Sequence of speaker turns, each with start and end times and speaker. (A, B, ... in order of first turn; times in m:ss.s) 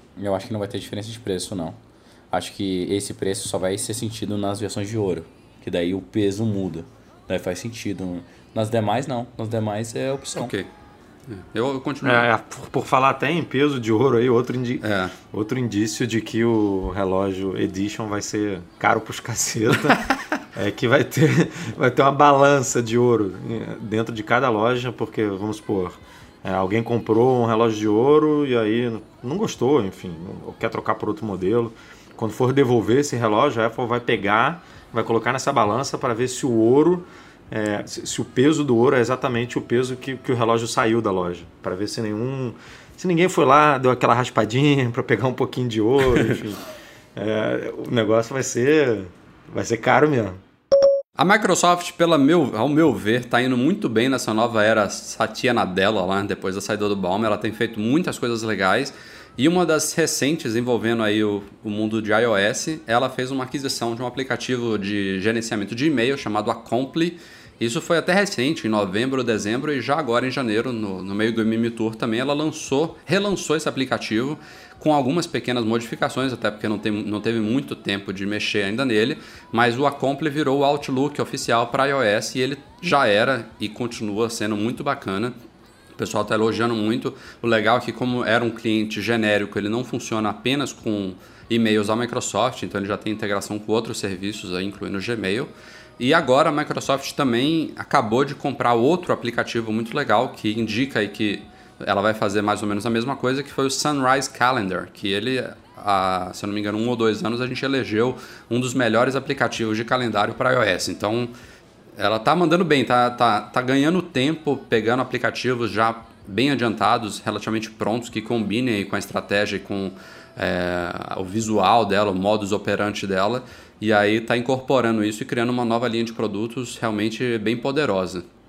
0:00.2-0:01.8 A
0:02.3-0:10.5 A
0:10.4-0:10.7 B
0:11.3-0:12.2 B
0:12.0-0:20.0 C
0:14.8-0:15.1 B
0:20.5-0:46.6 C
0:47.1-0:50.4 C
0:51.2-1:25.3 B
1:26.0-1:51.3 B
1:52.0-2:08.2 B